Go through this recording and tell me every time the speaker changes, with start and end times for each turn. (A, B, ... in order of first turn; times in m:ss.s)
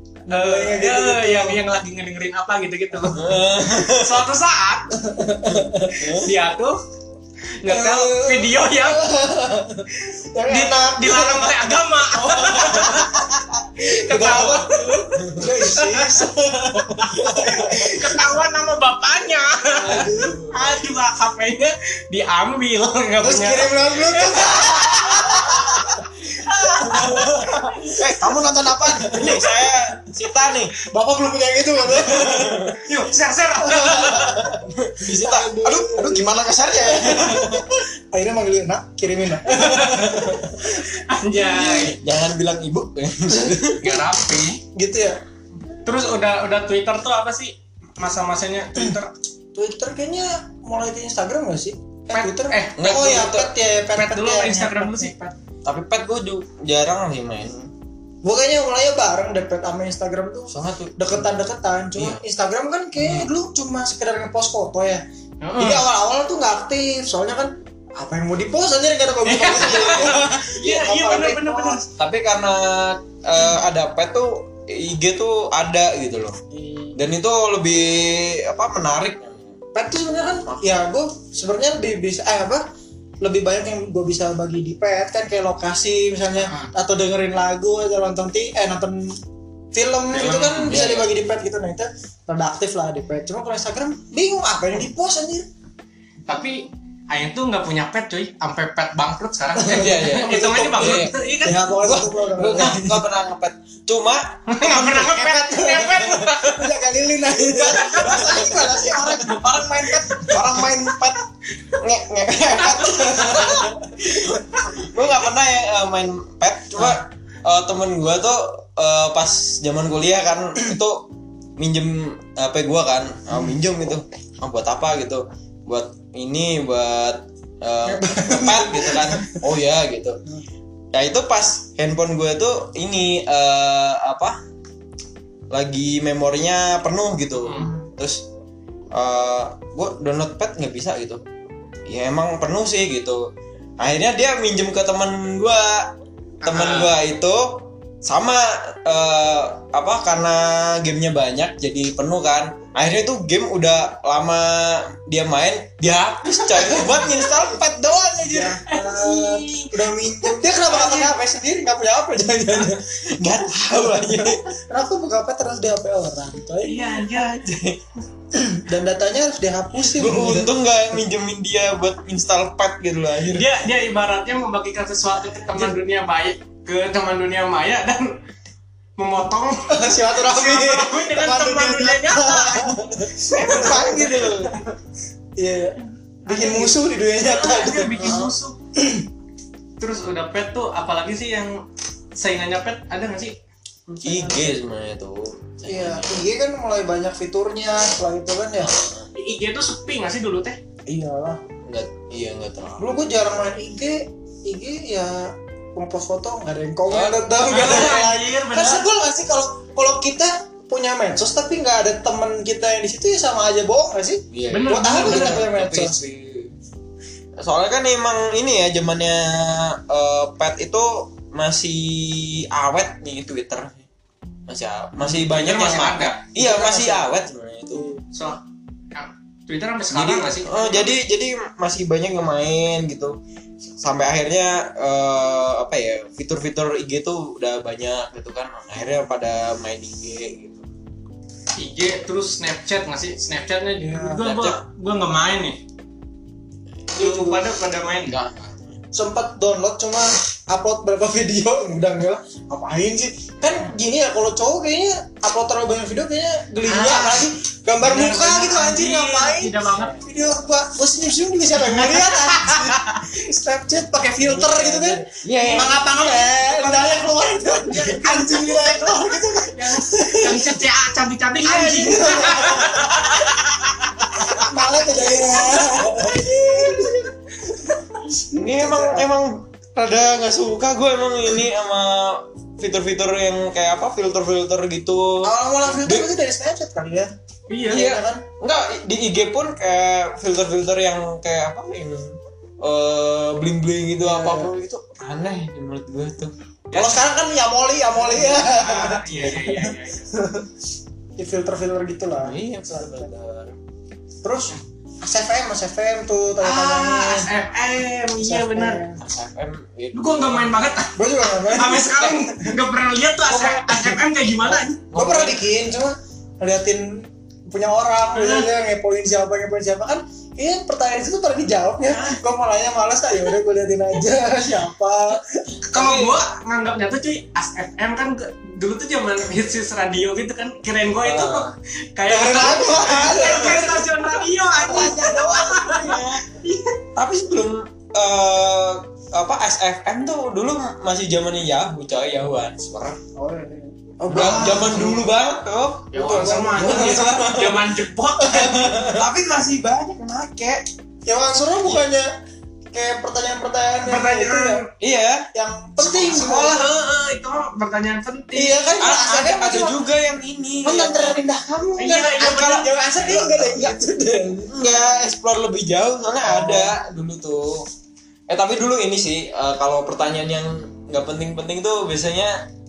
0:00.3-0:05.0 A
0:00.3-0:01.6 B
0:03.1-0:04.2 C
0:05.0-0:05.9 B
0:05.5-0:06.3 C
0:05.9-0:06.8 A
0:07.6-0:09.0 A
0:07.7-0:18.2 B
0:10.5-0:13.2 A
0:13.8-0:16.2 A
0:15.2-0:15.5 C
0:17.1-0:17.8 C
0:17.4-0:28.0 A
0:19.7-0:20.4 B
0:19.8-0:20.8 C
0:23.2-0:26.0 B
0:24.4-0:25.8 C
0:26.8-0:30.7 C
0:26.8-0:29.5 B
0:30.8-0:32.8 B
0:31.8-0:32.8 C
0:32.8-0:34.4 A
0:33.6-0:40.9 B
0:33.9-0:37.6 C
0:39.5-0:42.0 A
0:41.5-0:44.0 C
0:41.5-0:41.8 B
0:43.8-0:44.6 A
0:44.7-0:45.2 B
0:45.8-0:49.1 A
0:49.5-0:55.1 B
0:52.1-0:52.8 A
0:52.8-0:53.5 C
0:53.9-0:55.3 A
0:55.6-0:57.7 C
0:58.2-1:05.0 B
1:00.5-1:01.3 C
1:02.0-1:02.2 C
1:05.4-1:05.8 A
1:05.6-1:11.8 B
1:09.2-1:11.8 A
1:11.9-1:16.4 C
1:16.9-1:19.5 C
1:19.7-1:22.6 B
1:23.2-1:29.2 B
1:29.7-1:35.4 B
1:30.2-1:30.7 A
1:30.2-1:31.1 C
1:36.3-1:41.8 A
1:39.6-1:43.0 B
1:39.7-1:41.2 C
1:41.8-1:45.2 C
1:44.5-1:46.7 A
1:44.8-1:50.5 B
1:47.4-1:51.2 C
1:47.7-1:48.5 A
1:51.7-2:10.2 C
1:52.6-1:53.6 A
1:52.8-1:53.8 B
2:07.9-2:09.4 B
2:10.9-2:14.4 C
2:15.5-2:18.2 C
2:17.4-2:17.7 A
2:18.9-2:21.2 C
2:21.8-2:23.3 C
2:23.8-2:38.6 C
2:26.4-2:26.9 A
2:36.4-2:37.4 B
2:38.2-2:42.8 B
2:38.7-2:39.8 A
2:40.5-2:41.1 A
2:43.0-2:44.5 C
2:43.8-2:46.9 B
2:46.6-2:47.4 A
2:47.0-2:47.8 C
2:48.4-2:50.5 B
2:49.9-2:53.5 C
2:53.3-2:58.2 A
2:59.0-3:04.0 A
2:59.7-3:04.7 B
3:03.3-3:04.6 C
3:05.4-3:09.0 B
3:06.2-3:08.6 A
3:09.8-3:13.4 A
3:13.9-3:14.6 B
3:14.0-3:16.2 C
3:15.7-3:18.7 B
3:18.6-3:19.1 C
3:19.1-3:20.6 A
3:20.9-3:21.4 B
3:21.6-3:22.9 C
3:22.8-3:36.0 B
3:26.9-3:28.0 C
3:27.4-3:28.8 A
3:34.3-3:36.5 C
3:34.5-3:35.4 A
3:37.4-3:43.8 C
3:44.5-3:47.8 C
3:45.0-3:46.3 A
3:46.4-3:47.0 B
3:47.7-3:48.0 B
3:48.1-3:48.4 A
3:48.9-3:51.0 A
3:49.9-4:00.7 C
4:01.6-4:05.6 A
4:03.8-4:04.3 B
4:04.2-4:04.6 C
4:06.9-4:08.2 A
4:07.0-4:07.4 B
4:08.1-4:08.8 C
4:08.9-4:30.6 B
4:16.7-4:17.2 A
4:17.8-4:20.0 A
4:21.6-4:23.0 A
4:24.0-4:24.4 A
4:24.2-4:25.8 C
4:25.4-4:34.4 A
4:31.5-4:33.0 B
4:31.5-4:33.0 C
4:34.2-4:34.5 C
4:34.2-4:37.1 B
4:35.1-4:36.8 A
4:37.7-4:39.1 B
4:38.3-4:46.1 C
4:45.2-4:47.1 B
4:47.5-4:48.0 A
4:47.7-4:48.2 B
4:47.7-4:56.9 C
4:54.0-4:54.5 B
4:56.7-5:00.5 B
4:58.0-5:00.1 A
5:01.2-5:03.1 B
5:02.2-5:03.6 C
5:04.2-5:07.3 B
5:06.4-5:08.8 A
5:08.2-5:09.0 B
5:09.0-5:10.6 C
5:09.9-5:14.8 A
5:11.0-5:12.5 B
5:13.3-5:14.0 B
5:14.4-5:15.4 C
5:14.9-5:25.5 B
5:18.1-5:18.5 A
5:21.9-5:22.2 A
5:25.7-5:36.8 A
5:25.7-5:26.2 C
5:31.0-5:31.5 C
5:32.1-5:35.3 B
5:34.6-5:36.2 C
5:37.0-5:43.0 C
5:43.2-5:45.0 B
5:44.0-5:47.8 C
5:45.9-5:49.0 A
5:46.0-5:47.3 B
5:48.3-5:50.6 C
5:51.0-5:52.1 B
5:52.7-5:54.6 B
5:53.8-5:54.7 A
5:54.8-5:55.3 C
5:55.3-5:56.7 B
5:55.8-5:58.7 A
5:58.4-5:59.8 B
5:58.8-6:01.2 C
6:00.6-6:04.5 B
6:01.8-6:02.9 A
6:02.2-6:03.8 C
6:04.4-6:07.6 C
6:06.2-6:06.7 B
6:08.3-6:12.4 C